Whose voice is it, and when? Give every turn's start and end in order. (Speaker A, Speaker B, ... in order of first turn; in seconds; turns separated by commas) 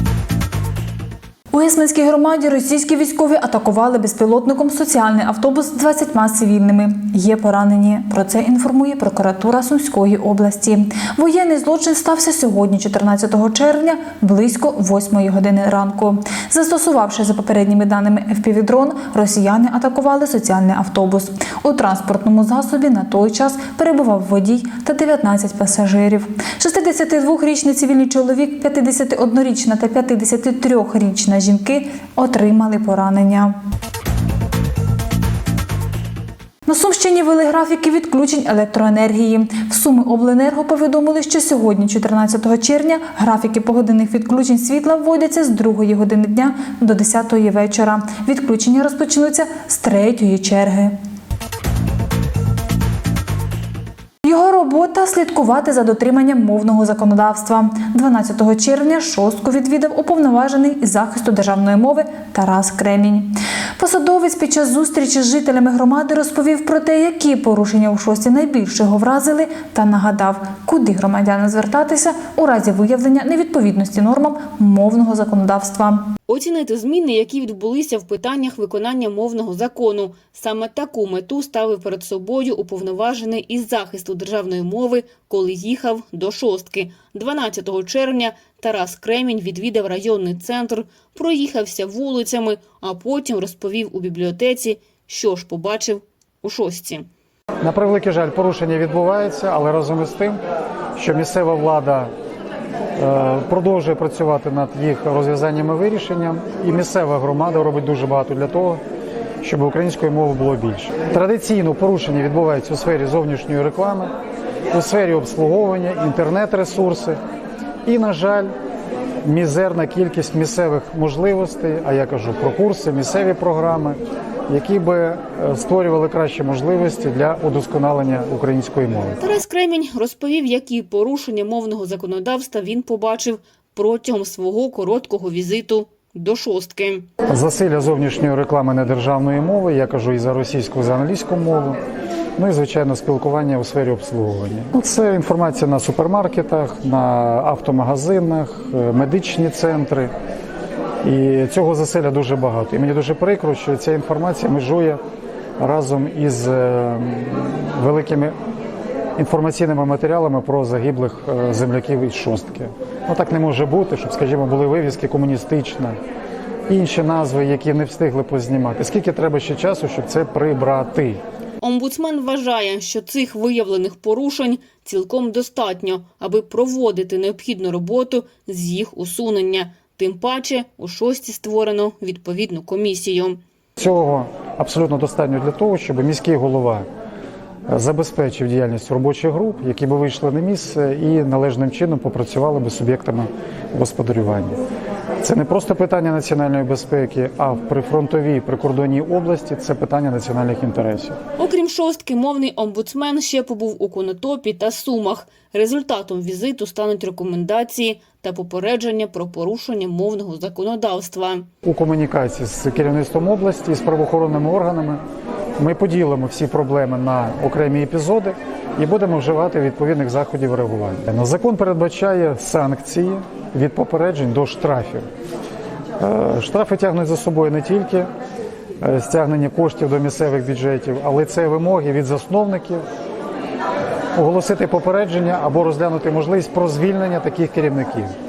Speaker A: 1.5-33.5, Speaker A: 36.7-51.0, Speaker A: 54.2-76.1, Speaker B: 76.3-97.1, Speaker C: 97.6-100.4, Speaker C: 101.0-102.1, Speaker C: 103.0-108.8, Speaker C: 109.4-114.1, Speaker C: 114.7-117.2, Speaker C: 117.8-118.5, Speaker C: 119.2-129.2, Speaker B: 129.2-137.1, Speaker C: 137.3-141.8, Speaker C: 142.4-150.1, Speaker C: 151.0-155.0, Speaker C: 155.6-158.3, Speaker C: 159.2-166.0, Speaker C: 166.7-171.2, Speaker B: 171.6-183.4, Speaker C: 183.8-186.9, Speaker C: 187.7-194.6, Speaker C: 195.2-201.2, Speaker B: 201.4-211.5, Speaker C: 211.6-215.0, Speaker C: 215.6-225.1, Speaker C: 226.0-228.1, Speaker C: 228.8-232.8, Speaker C: 234.2-238.1